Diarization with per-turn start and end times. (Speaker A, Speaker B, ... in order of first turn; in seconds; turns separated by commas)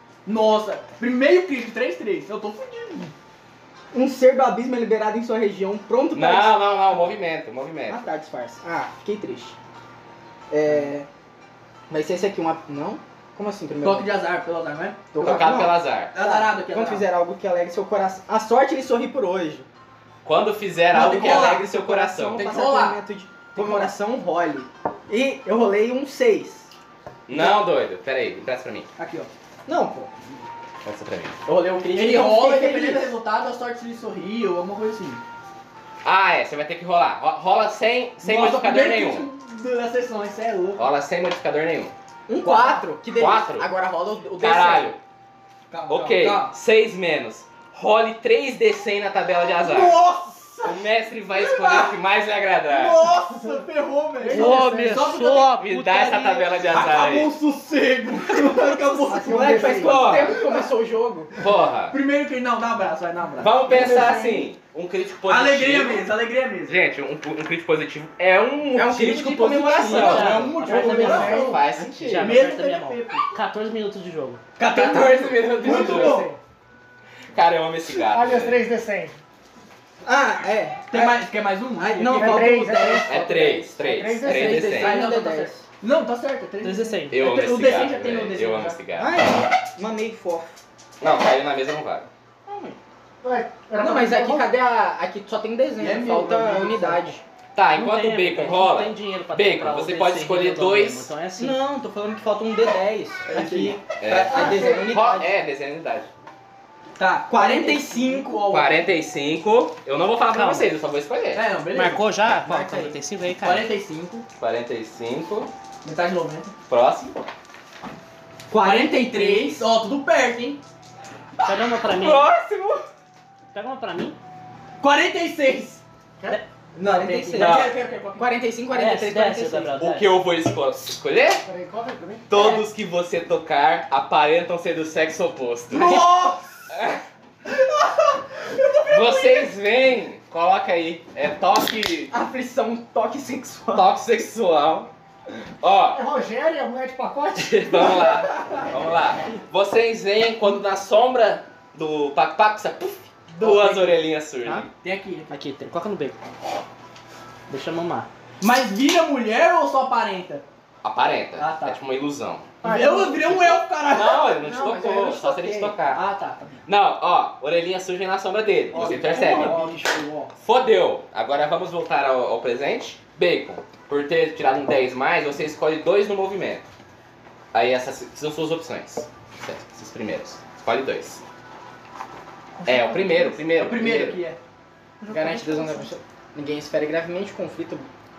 Speaker A: 0.2-3.1, Speaker B: 3.9-7.0, Speaker C: 6.1-8.1, Speaker B: 7.9-9.6, Speaker B: 10.5-11.1, Speaker B: 11.9-14.2, Speaker A: 13.8-15.1, Speaker B: 15.1-19.7, Speaker C: 15.2-16.1, Speaker A: 16.1-17.1, Speaker C: 20.2-22.6, Speaker B: 20.9-26.7, Speaker A: 20.9-21.7, Speaker A: 22.4-23.0, Speaker A: 23.5-23.9, Speaker C: 27.3-28.9, Speaker B: 27.3-27.6, Speaker A: 29.0-29.3, Speaker B: 29.6-30.1, Speaker C: 30.8-31.4, Speaker B: 31.4-33.1, Speaker A: 31.9-35.2, Speaker C: 36.0-39.3, Speaker A: 38.2-40.9, Speaker C: 40.8-41.9, Speaker B: 42.3-44.9, Speaker A: 42.4-42.9, Speaker C: 43.2-43.7, Speaker C: 44.4-45.0, Speaker A: 45.7-46.5, Speaker C: 45.9-50.0, Speaker A: 49.6-50.8, Speaker C: 50.6-53.0, Speaker A: 51.4-52.0, Speaker A: 52.6-59.7, Speaker D: 53.3-53.6, Speaker D: 54.2-55.2, Speaker E: 54.3-56.1, Speaker C: 55.6-57.3, Speaker B: 58.9-61.4, Speaker D: 59.0-60.3, Speaker C: 59.6-60.4, Speaker C: 61.4-62.0, Speaker A: 61.9-64.2, Speaker C: 63.4-66.1, Speaker D: 63.7-64.2, Speaker B: 63.9-64.3, Speaker A: 65.2-66.8, Speaker C: 66.6-72.5, Speaker B: 68.7-71.2, Speaker E: 69.9-70.6, Speaker A: 69.9-73.3, Speaker D: 70.6-71.6, Speaker E: 72.0-74.4, Speaker A: 74.6-76.3, Speaker C: 74.6-76.2, Speaker D: 75.6-76.4, Speaker C: 77.3-78.6, Speaker D: 78.0-79.1, Speaker B: 80.0-85.6, Speaker A: 80.9-82.8, Speaker D: 82.1-83.2, Speaker C: 83.0-85.0, Speaker D: 83.8-84.8, Speaker A: 84.2-88.8, Speaker E: 86.6-87.2, Speaker C: 87.1-89.1, Speaker B: 89.0-90.6, Speaker C: 91.0-92.1, Speaker B: 92.5-92.8, Speaker D: 93.2-94.5, Speaker B: 93.8-97.2, Speaker A: 95.8-97.1, Speaker C: 97.5-101.1, Speaker E: 97.7-101.6, Speaker B: 101.3-105.3, Speaker A: 103.3-103.8, Speaker C: 104.0-106.1, Speaker D: 104.3-105.0, Speaker A: 107.0-108.9, Speaker B: 107.3-108.6, Speaker C: 108.5-111.5, Speaker E: 110.3-110.7, Speaker A: 111.3-112.0, Speaker E: 111.7-113.7, Speaker B: 112.3-113.0, Speaker A: 113.4-114.2, Speaker C: 114.4-115.5, Speaker A: 115.8-116.5, Speaker C: 116.7-117.2, Speaker B: 118.5-119.7, Speaker A: 118.5-120.6, Speaker E: 121.4-122.3, Speaker B: 121.9-122.8, Speaker E: 123.5-124.2, Speaker A: 124.8-125.8, Speaker B: 126.8-129.7, Speaker A: 126.8-128.3, Speaker C: 127.4-127.7, Speaker E: 128.7-130.2, Speaker C: 129.8-131.4, Speaker D: 131.4-132.3, Speaker C: 132.3-136.1, Speaker B: 132.3-132.6, Speaker A: 135.7-136.4, Speaker B: 135.8-136.3, Speaker C: 136.7-137.0, Speaker A: 137.6-138.1, Speaker C: 138.8-142.1, Speaker B: 142.1-143.9, Speaker C: 143.7-144.9, Speaker C: 145.6-146.0, Speaker D: 145.9-148.1, Speaker C: 147.3-154.7, Speaker A: 153.3-154.0, Speaker A: 154.8-155.4, Speaker E: 155.3-156.2, Speaker E: 157.5-158.1, Speaker A: 158.4-160.4, Speaker C: 160.8-162.6, Speaker A: 161.4-161.8, Speaker A: 162.6-164.3, Speaker D: 162.6-163.5, Speaker C: 163.8-166.0, Speaker B: 164.3-165.8, Speaker A: 165.9-166.6, Speaker C: 166.7-169.6, Speaker A: 168.7-170.3, Speaker B: 168.7-169.8, Speaker C: 170.3-176.7, Speaker C: 177.5-181.2, Speaker D: 182.6-183.3, Speaker C: 182.6-184.2, Speaker A: 183.4-184.4, Speaker D: 185.0-185.8, Speaker B: 185.1-187.9